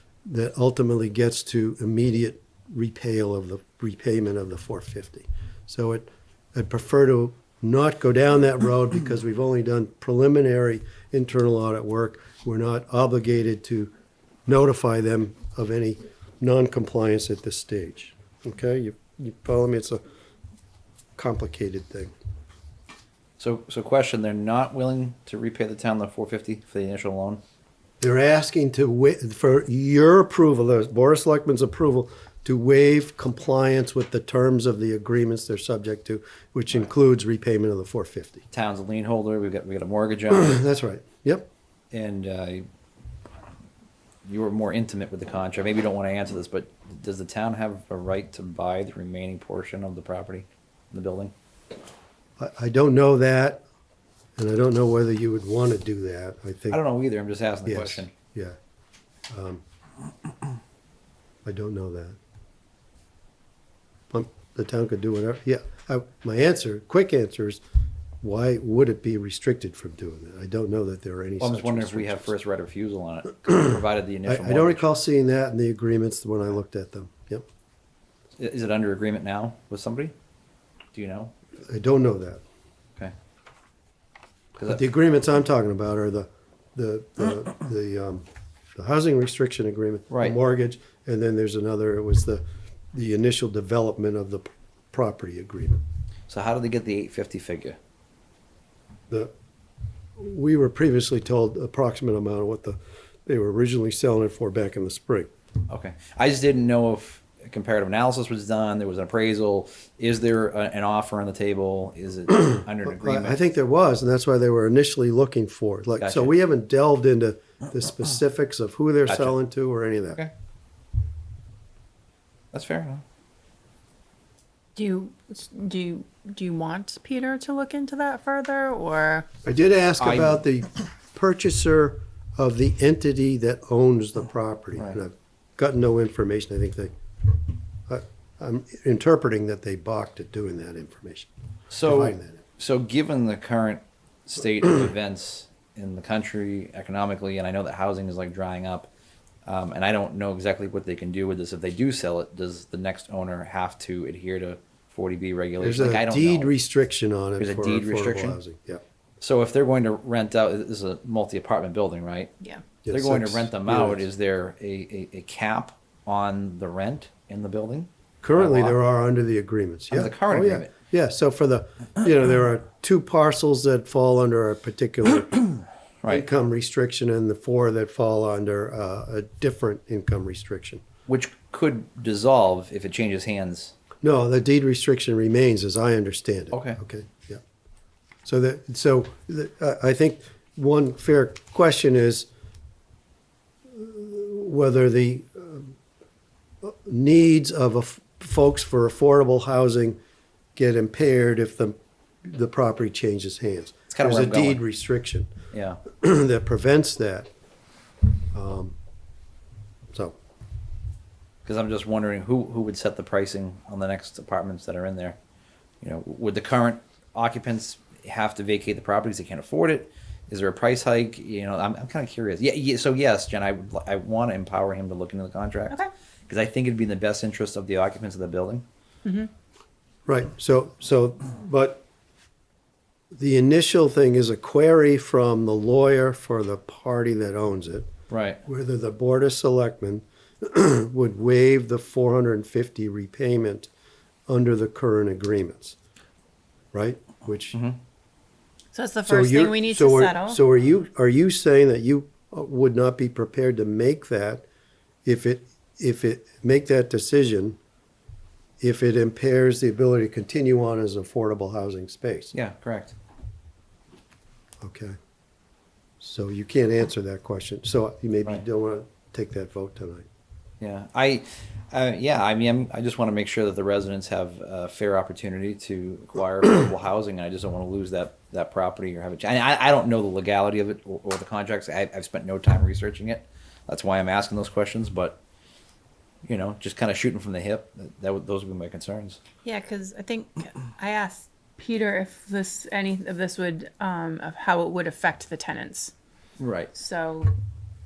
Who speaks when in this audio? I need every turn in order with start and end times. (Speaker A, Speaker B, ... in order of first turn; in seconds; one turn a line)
Speaker A: 0.3-13.9
Speaker A: 14.5-20.0
Speaker A: 21.2-22.1
Speaker B: 23.4-27.4
Speaker A: 28.0-38.5
Speaker B: 38.5-40.5
Speaker A: 40.3-41.5
Speaker B: 41.9-42.6
Speaker B: 44.3-51.3
Speaker A: 52.4-53.6
Speaker A: 54.4-56.8
Speaker B: 56.7-58.1
Speaker A: 57.7-58.5
Speaker A: 59.3-59.6
Speaker A: 61.5-62.2
Speaker A: 64.1-67.6
Speaker A: 68.2-72.3
Speaker B: 71.4-74.8
Speaker A: 74.3-77.5
Speaker B: 78.4-80.1
Speaker B: 80.9-81.3
Speaker A: 81.7-82.4
Speaker B: 84.6-84.8
Speaker A: 84.7-88.2
Speaker A: 88.8-95.8
Speaker B: 90.1-90.4
Speaker B: 96.3-97.8
Speaker A: 100.2-105.3
Speaker B: 105.7-113.4
Speaker A: 112.5-120.2
Speaker B: 116.0-116.3
Speaker B: 119.1-119.3
Speaker B: 122.5-123.0
Speaker C: 124.8-129.3
Speaker A: 129.4-136.9
Speaker B: 130.0-130.4
Speaker A: 137.9-141.3
Speaker B: 141.7-148.9
Speaker A: 141.8-142.4
Speaker B: 149.5-156.5
Speaker A: 155.6-158.8
Speaker B: 157.4-158.4
Speaker B: 159.2-162.3
Speaker A: 162.8-164.1
Speaker B: 162.9-168.8
Speaker A: 168.2-175.5
Speaker B: 169.9-170.7
Speaker A: 176.1-180.8
Speaker B: 181.1-183.8
Speaker A: 184.0-187.4
Speaker B: 186.5-186.8
Speaker A: 188.2-192.3
Speaker A: 193.7-195.7
Speaker A: 196.6-200.0
Speaker A: 200.6-205.3
Speaker B: 203.9-204.6
Speaker B: 205.5-205.8
Speaker A: 205.9-207.3
Speaker A: 208.3-208.8
Speaker B: 211.4-215.2
Speaker B: 215.8-228.6
Speaker C: 229.1-229.3
Speaker A: 230.1-231.8
Speaker A: 233.1-237.9
Speaker B: 238.1-238.4
Speaker A: 238.4-243.7
Speaker A: 244.3-245.8
Speaker A: 246.7-247.6
Speaker C: 248.7-250.4
Speaker A: 249.1-254.4
Speaker A: 255.1-257.6
Speaker A: 258.6-262.3
Speaker B: 262.3-262.9
Speaker A: 264.6-265.0
Speaker A: 266.0-270.1
Speaker B: 270.6-285.2
Speaker B: 286.2-289.2
Speaker C: 289.4-295.9
Speaker B: 296.4-296.7
Speaker C: 296.8-297.3